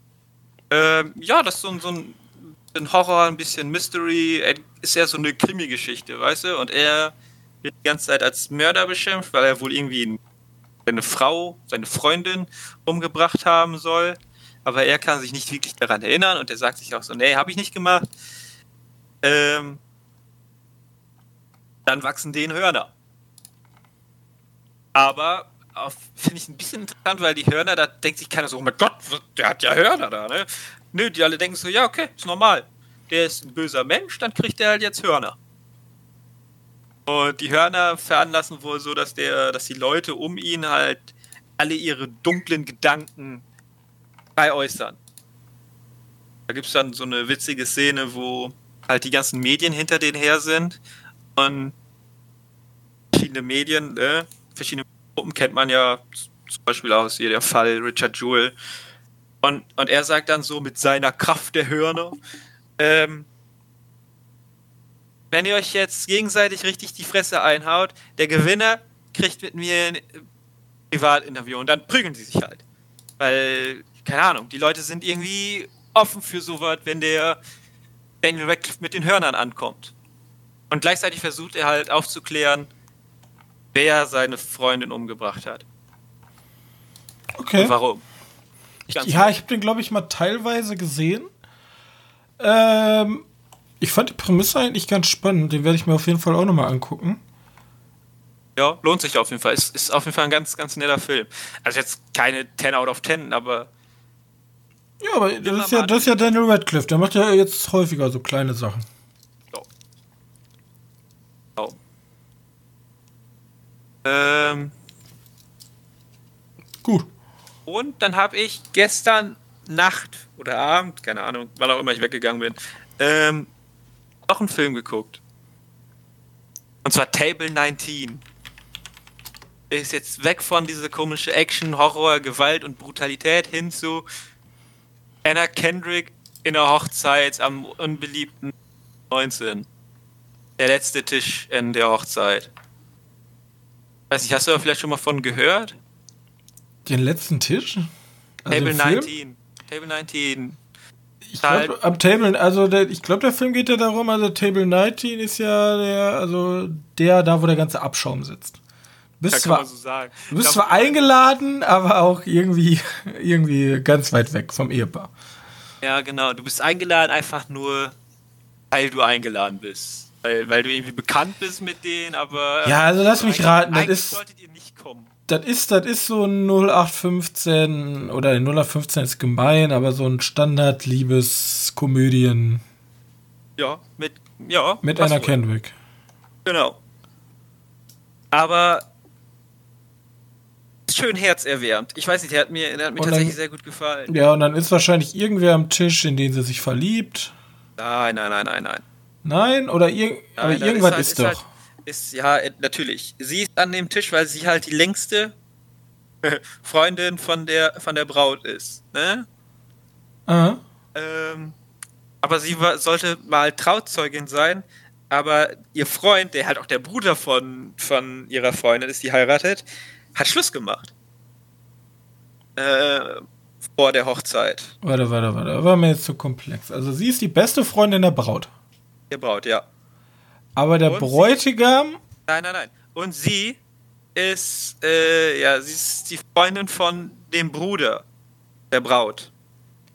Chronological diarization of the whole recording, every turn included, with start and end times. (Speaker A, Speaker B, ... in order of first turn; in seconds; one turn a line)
Speaker A: 0.7-10.2
Speaker A: 10.8-18.1
Speaker A: 19.2-19.8
Speaker A: 21.9-22.9
Speaker A: 24.9-35.4
Speaker A: 37.0-43.4
Speaker A: 44.4-45.0
Speaker A: 46.5-50.8
Speaker A: 51.4-51.7
Speaker A: 53.1-58.5
Speaker A: 59.4-62.2
Speaker A: 62.8-63.3
Speaker A: 65.3-70.2
Speaker A: 70.9-72.6
Speaker A: 73.2-77.4
Speaker A: 78.2-79.9
Speaker A: 80.7-82.7
Speaker A: 83.7-85.6
Speaker B: 87.4-87.7
Speaker A: 87.6-88.0
Speaker B: 88.9-91.3
Speaker A: 88.9-89.3
Speaker B: 92.4-93.2
Speaker B: 93.8-97.2
Speaker A: 98.5-103.7
Speaker B: 105.0-108.8
Speaker A: 105.4-106.2
Speaker A: 114.0-114.7
Speaker A: 117.7-123.5
Speaker A: 124.2-125.2
Speaker A: 126.8-128.2
Speaker A: 129.7-134.1
Speaker A: 135.2-138.5
Speaker A: 139.1-139.7
Speaker A: 140.6-142.5
Speaker A: 144.1-145.8
Speaker B: 146.8-147.9
Speaker B: 148.4-149.1
Speaker A: 148.5-150.6
Speaker B: 151.3-158.6
Speaker A: 151.4-151.7
Speaker B: 159.2-159.7
Speaker A: 159.3-161.1
Speaker B: 160.3-165.1
Speaker A: 165.8-167.9
Speaker A: 168.7-175.1
Speaker B: 172.6-174.2
Speaker B: 175.3-182.6
Speaker A: 183.6-185.4
Speaker B: 184.8-185.7
Speaker A: 186.4-186.8
Speaker A: 188.3-188.8
Speaker A: 190.9-194.1
Speaker B: 193.0-193.3
Speaker B: 194.1-197.3
Speaker A: 197.8-198.8
Speaker B: 199.2-201.4
Speaker A: 200.4-205.3
Speaker A: 206.2-209.2
Speaker B: 210.3-210.6
Speaker A: 210.9-211.6
Speaker A: 212.2-219.6
Speaker A: 220.1-220.9
Speaker A: 222.6-224.7
Speaker B: 224.8-228.5
Speaker A: 229.1-229.7
Speaker B: 230.6-232.0
Speaker A: 230.8-231.3
Speaker A: 232.2-233.6
Speaker A: 234.1-238.0
Speaker A: 238.7-239.3